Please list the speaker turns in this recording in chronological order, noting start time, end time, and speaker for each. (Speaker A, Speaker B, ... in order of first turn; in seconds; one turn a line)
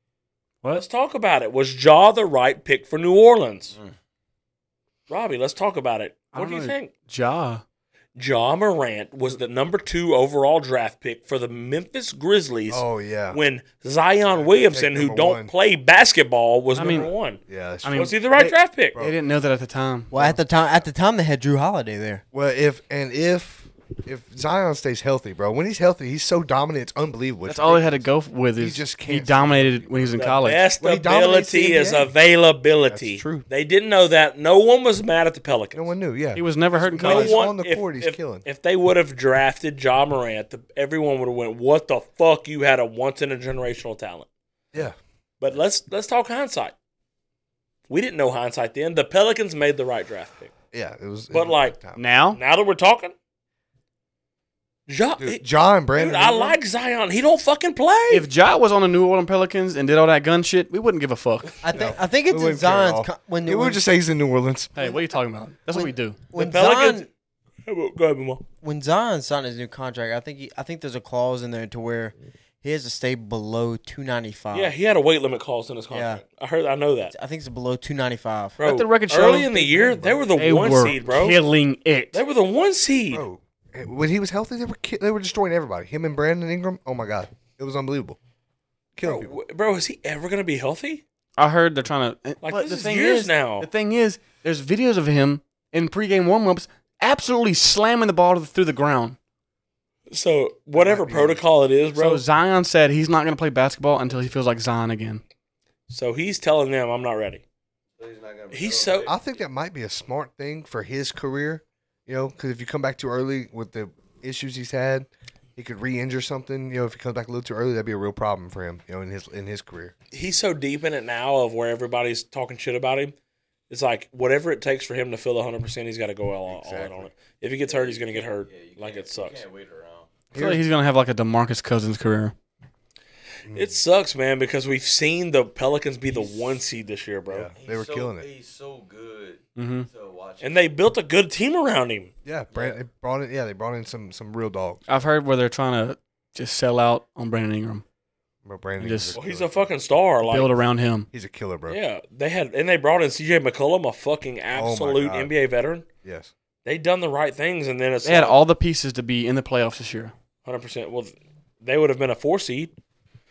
Speaker A: 0.7-3.7
Speaker A: 5.1-6.9
Speaker B: 6.3-7.6
Speaker A: 8.2-17.4
Speaker C: 12.7-13.4
Speaker C: 14.3-15.5
Speaker B: 16.7-17.1
Speaker C: 17.5-18.2
Speaker B: 17.8-20.3
Speaker A: 17.9-19.0
Speaker D: 20.1-22.2
Speaker C: 22.3-32.1
Speaker B: 27.4-30.6
Speaker A: 30.2-35.9
Speaker C: 32.8-33.5
Speaker C: 35.7-38.4
Speaker B: 36.3-37.5
Speaker A: 37.0-44.3
Speaker A: 45.4-46.7
Speaker A: 47.9-50.5
Speaker C: 50.7-52.0
Speaker A: 51.3-51.8
Speaker B: 52.0-52.4
Speaker A: 52.3-53.1
Speaker A: 54.9-55.4
Speaker C: 55.2-56.6
Speaker A: 55.9-58.3
Speaker B: 58.1-61.6
Speaker D: 61.6-63.8
Speaker C: 61.7-64.9
Speaker B: 64.7-66.2
Speaker D: 65.7-67.1
Speaker A: 66.3-67.1
Speaker A: 67.7-68.4
Speaker D: 68.6-74.7
Speaker A: 74.5-77.1
Speaker D: 75.9-76.2
Speaker D: 77.1-78.6
Speaker A: 78.6-81.4
Speaker B: 78.6-82.2
Speaker A: 82.1-83.2
Speaker C: 83.1-88.2
Speaker C: 89.0-89.3
Speaker A: 89.0-91.0
Speaker B: 91.4-99.2
Speaker A: 92.4-93.7
Speaker A: 100.1-102.2
Speaker C: 100.7-101.4
Speaker B: 102.0-105.2
Speaker A: 105.9-107.4
Speaker E: 108.0-109.2
Speaker A: 108.5-109.1
Speaker C: 109.0-119.9
Speaker A: 120.1-123.1
Speaker A: 123.7-129.4
Speaker C: 126.5-127.1
Speaker E: 127.6-130.1
Speaker C: 130.3-130.6
Speaker B: 130.3-132.3
Speaker C: 133.4-133.8
Speaker A: 133.5-137.5
Speaker E: 136.1-136.6
Speaker C: 137.3-138.3
Speaker E: 137.6-140.6
Speaker B: 139.6-139.9
Speaker A: 140.4-142.1
Speaker C: 142.2-144.8
Speaker E: 142.5-142.8
Speaker B: 144.9-147.8
Speaker C: 148.4-149.7
Speaker B: 148.8-149.2
Speaker A: 149.1-150.6
Speaker B: 150.2-151.1
Speaker C: 151.1-151.8
Speaker A: 151.7-155.8
Speaker C: 154.5-155.3
Speaker C: 156.0-156.3
Speaker A: 156.6-158.4
Speaker B: 158.0-160.1
Speaker A: 160.4-162.7